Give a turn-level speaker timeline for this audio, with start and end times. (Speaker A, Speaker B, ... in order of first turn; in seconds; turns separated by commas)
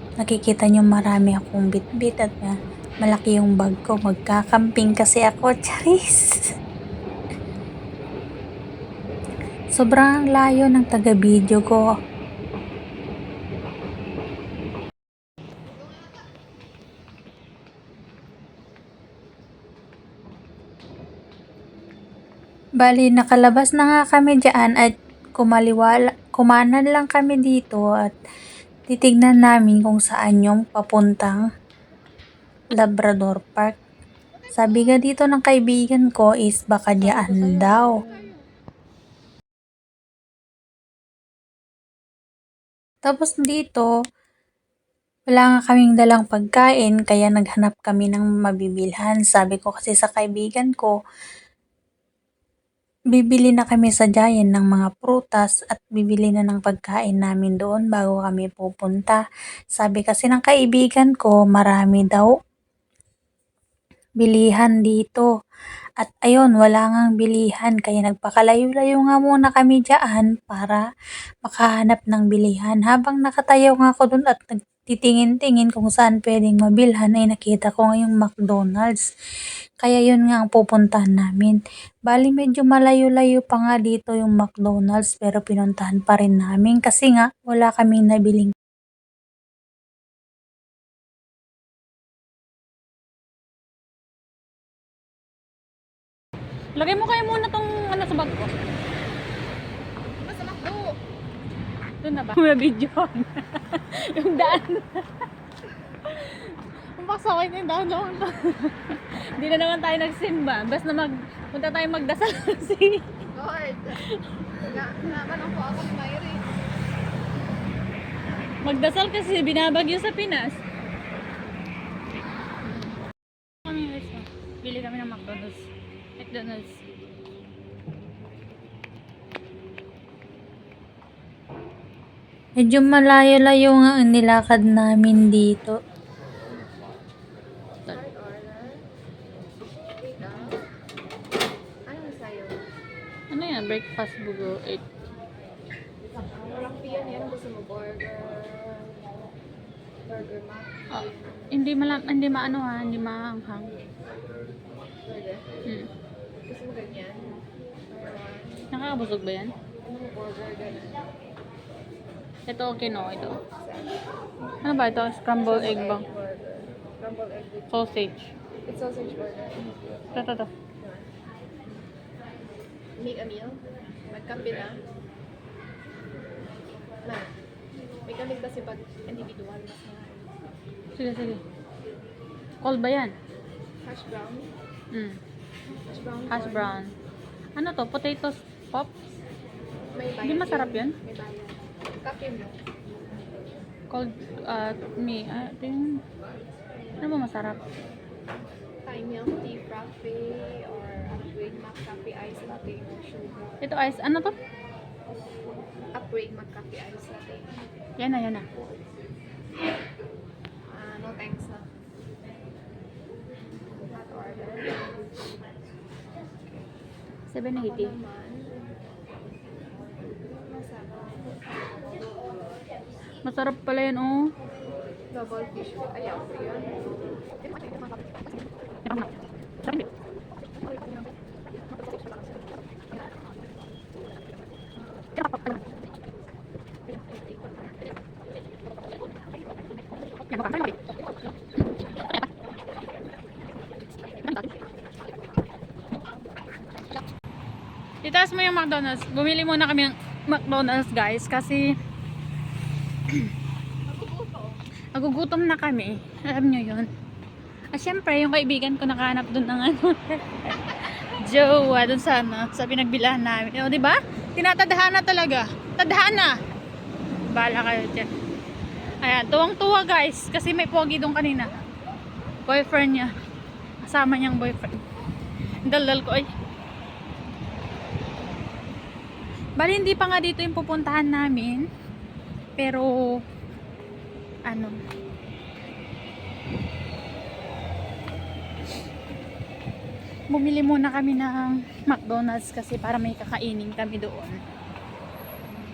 Speaker A: 0.2-6.4, Speaker A: 9.8-11.8, Speaker A: 22.8-28.1, Speaker A: 28.9-31.4, Speaker A: 32.8-33.7, Speaker A: 34.5-37.9, Speaker B: 37.0-38.3, Speaker A: 43.0-43.9, Speaker A: 45.3-50.9, Speaker A: 53.1-59.2, Speaker A: 59.8-62.3, Speaker A: 64.2-65.3, Speaker A: 66.0-70.8, Speaker A: 71.5-79.0, Speaker A: 79.8-81.6, Speaker A: 82.1-88.5, Speaker B: 96.8-98.5, Speaker C: 100.2-101.0, Speaker B: 102.0-105.1, Speaker B: 106.1-113.0, Speaker C: 113.3-114.0, Speaker B: 114.0-114.2, Speaker C: 114.5-116.6, Speaker B: 118.6-120.6, Speaker B: 123.7-125.6, Speaker B: 126.2-126.8, Speaker A: 132.6-135.7, Speaker C: 137.9-138.8, Speaker C: 140.0-140.6, Speaker C: 141.9-142.7, Speaker B: 143.3-144.8, Speaker C: 146.5-149.1, Speaker C: 150.1-151.4, Speaker B: 150.9-153.7, Speaker C: 155.1-155.5, Speaker C: 156.4-158.7, Speaker B: 158.7-159.5, Speaker C: 159.8-161.0, Speaker B: 162.5-163.4, Speaker C: 163.6-164.0, Speaker B: 164.6-166.1, Speaker C: 165.4-167.8, Speaker B: 167.7-168.3, Speaker C: 168.7-169.7, Speaker B: 170.2-170.5, Speaker C: 170.8-171.1, Speaker C: 173.0-174.8, Speaker C: 177.0-177.3, Speaker C: 178.1-180.3, Speaker B: 181.0-181.4, Speaker B: 182.6-183.2, Speaker C: 183.8-184.5, Speaker B: 184.9-185.2, Speaker C: 185.9-186.8, Speaker B: 186.3-186.9, Speaker B: 187.6-188.9, Speaker C: 189.9-192.6, Speaker B: 190.2-190.9, Speaker B: 193.9-196.0, Speaker B: 197.0-197.6, Speaker C: 198.8-203.6, Speaker B: 203.6-204.3, Speaker C: 205.9-207.5, Speaker B: 208.0-208.4, Speaker C: 210.7-211.7, Speaker C: 213.9-214.9, Speaker B: 217.3-218.0, Speaker C: 217.6-218.6, Speaker C: 220.2-222.5, Speaker B: 223.2-224.3, Speaker C: 225.1-228.4, Speaker C: 230.6-232.4, Speaker B: 235.2-235.6, Speaker C: 236.9-237.7, Speaker B: 240.3-240.8, Speaker B: 244.2-244.5, Speaker B: 248.0-251.7, Speaker C: 253.9-254.6, Speaker B: 254.9-256.9, Speaker B: 257.7-266.3, Speaker B: 267.3-268.1, Speaker B: 269.0-271.6, Speaker B: 272.5-273.1, Speaker B: 273.8-274.8, Speaker B: 275.7-276.3, Speaker B: 279.6-281.6, Speaker B: 282.6-283.2, Speaker B: 284.5-284.8, Speaker B: 290.3-294.4